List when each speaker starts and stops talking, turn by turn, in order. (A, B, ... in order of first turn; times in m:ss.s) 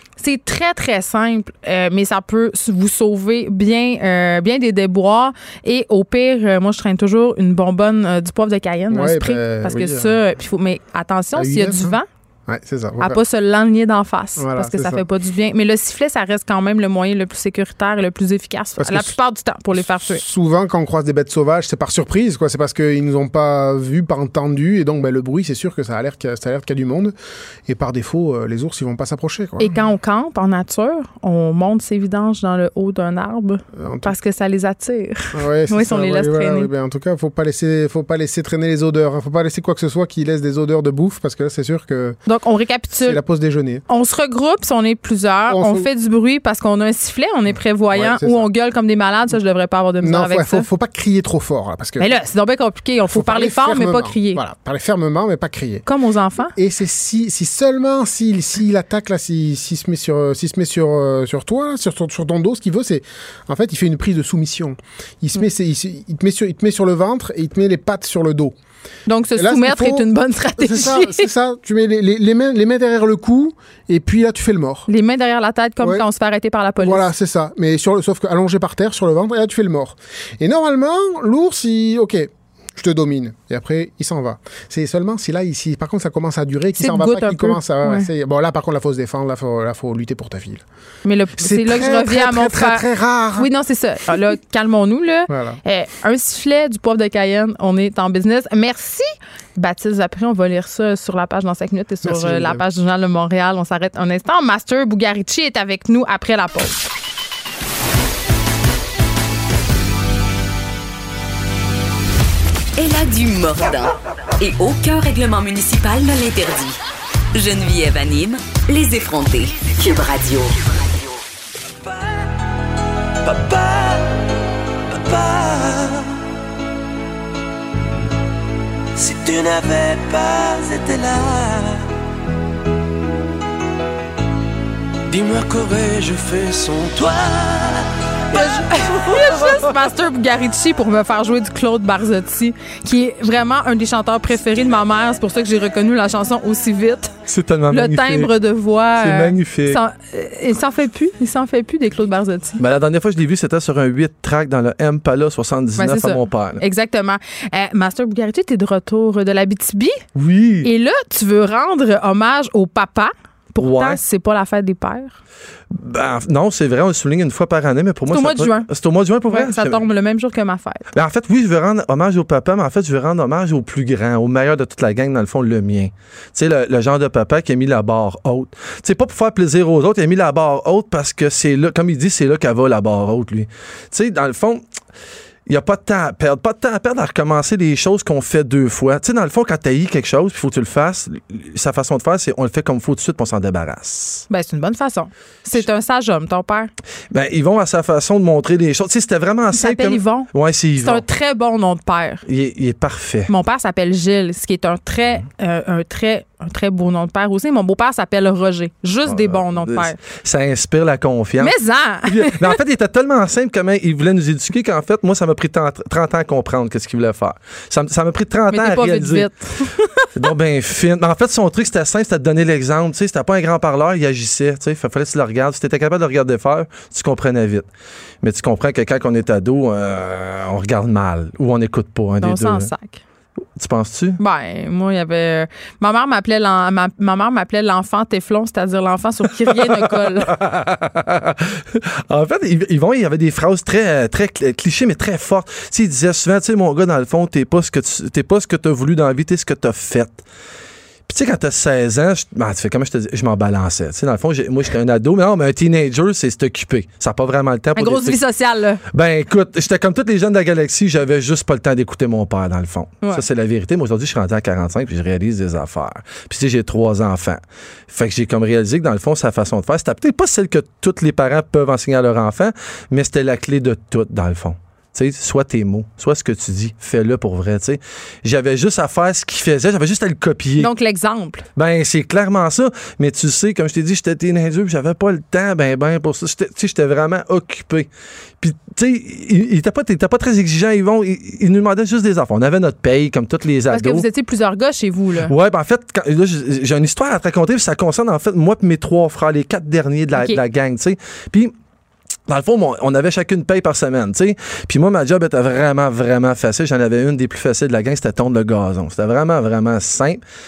0:00.2-0:12.0 A
0:08.9-0:10.2 B
0:11.4-0:13.2 B
0:13.0-0:20.2 A
0:14.4-0:15.0 B
0:18.8-0:19.2 B
0:19.8-0:27.1 B
0:27.7-0:29.8 B
0:29.6-0:36.7 A
0:33.8-0:34.1 B
0:35.3-0:42.2 B
0:42.3-0:43.2 A
0:42.9-0:43.8 B
0:43.9-0:50.7 A
0:45.5-0:45.9 B
0:47.9-0:48.5 B
0:50.0-0:52.1 B
0:52.0-0:54.4 A
0:53.1-0:55.8 B
0:55.8-0:56.5 A
0:56.6-1:08.6 B
1:09.1-1:11.3 A
1:09.4-1:14.9 B
1:14.9-1:17.0 A
1:16.8-1:30.6 B
1:26.8-1:28.1 A
1:31.0-1:32.8 A
1:31.4-1:33.5 B
1:33.4-1:46.8 A
1:35.3-1:35.6 B
1:42.0-1:42.6 B
1:52.8-1:56.8 C
1:57.3-2:00.6 C
2:03.2-2:04.2 D
2:04.9-2:06.1 D
2:09.0-2:11.9 D
2:15.1-2:19.7 D
2:18.4-2:27.2 A
2:27.3-2:28.3 E
2:27.7-2:32.6 A
2:29.0-2:29.8 E
2:32.6-2:36.6 E
2:35.8-2:40.0 A
2:40.2-2:40.7 E
2:40.6-2:45.2 A
2:43.6-2:44.0 E
2:45.7-2:49.8 E
2:48.1-2:48.7 A
2:49.3-2:50.9 A
2:50.9-3:04.6 E
3:05.5-3:14.2 E
3:14.3-3:16.7 A
3:17.1-3:21.0 E
3:19.5-3:22.2 A
3:22.3-3:23.3 E
3:23.3-3:30.0 A
3:29.0-3:39.3 E
3:31.4-3:32.6 A
3:38.5-3:40.1 A
3:40.2-3:47.7 E
3:48.2-3:52.7 E
3:52.2-3:53.0 A
3:53.6-3:54.2 E
3:54.2-4:00.3 A
3:59.5-4:10.2 E
4:11.1-4:18.2 E
4:17.8-4:18.8 A
4:18.9-4:40.7 E
4:40.6-4:41.5 A
4:41.6-4:54.0 E
4:53.7-4:55.3 A
4:55.2-5:01.5 E
5:00.1-5:00.4 A
5:02.3-5:10.2 E